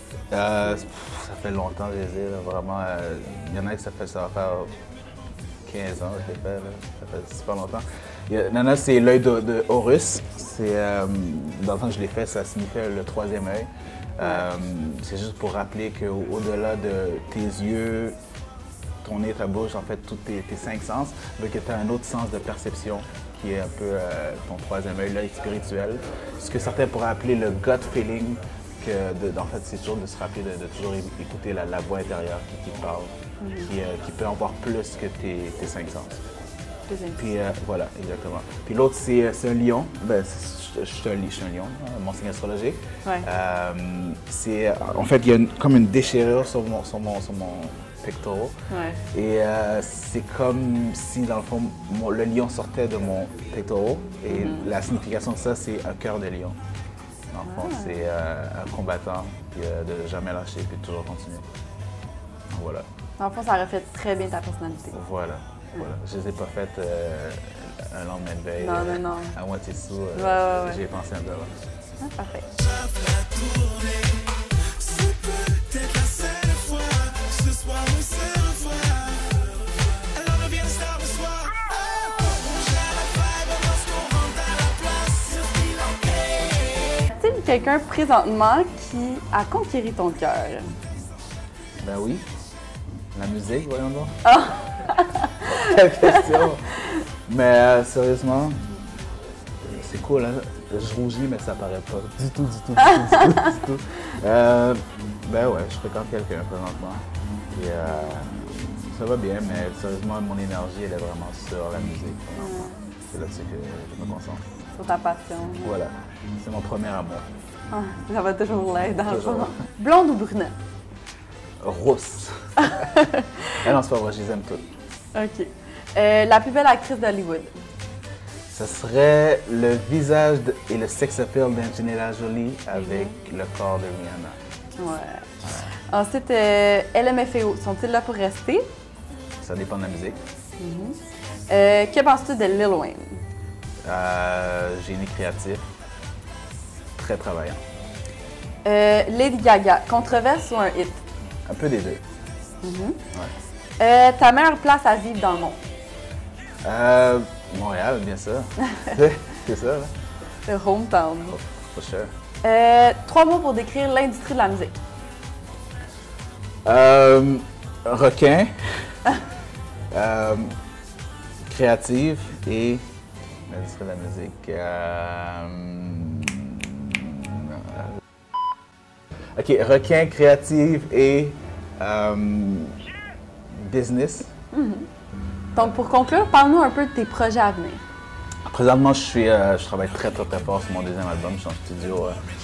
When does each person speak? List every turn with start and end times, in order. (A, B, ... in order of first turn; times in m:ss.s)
0:00.3-0:04.7 A
0:05.7-0:18.2 A
0:14.2-0:14.5 B
0:19.0-0:33.1 A
0:33.4-0:33.7 B
0:33.6-0:36.2 A
0:36.9-0:37.2 B
0:37.2-0:48.6 A
0:48.7-0:49.0 B
0:49.1-0:56.6 A
0:54.3-0:54.7 B
0:57.3-1:01.5 A
0:57.4-0:58.0 B
1:02.5-1:02.9 A
1:03.2-1:05.0 B
1:04.9-1:11.5 A
1:08.6-1:09.4 B
1:10.2-1:10.8 B
1:12.0-1:12.5 B
1:12.6-1:19.4 C
1:20.1-1:27.1 C
1:27.1-1:30.7 B
1:31.8-1:32.3 A
1:33.1-1:34.2 A
1:34.2-1:35.5 B
1:35.4-1:36.7 A
1:37.3-1:38.6 A
1:39.6-1:54.4 A
1:52.4-1:52.8 B
1:54.8-1:55.8 B
1:55.6-1:57.2 A
1:57.7-2:00.6 B
1:59.0-1:59.6 A
2:01.6-2:02.9 A
2:02.7-2:03.3 B
2:03.6-2:04.7 A
2:05.2-2:07.6 B
2:08.5-2:14.4 A
2:12.8-2:13.1 B
2:14.8-2:15.3 B
2:15.9-2:18.7 B
2:19.4-2:20.2 A
2:20.6-2:21.0 B
2:21.5-2:23.2 B
2:23.8-2:25.6 A
2:27.0-2:27.6 A
2:28.6-2:31.0 B
2:31.5-2:32.0 A
2:32.6-2:33.0 B
2:33.8-2:35.6 B
2:36.6-2:39.9 A
2:40.5-2:41.4 B
2:41.3-2:42.1 A
2:42.4-2:44.8 B
2:46.6-2:48.7 A
2:49.9-2:50.6 A
2:51.5-2:52.8 A
2:53.5-2:57.9 A
2:59.4-3:02.8 A
3:03.6-3:04.3 A
3:04.5-3:04.9 B
3:05.6-3:07.8 B
3:08.5-3:12.2 A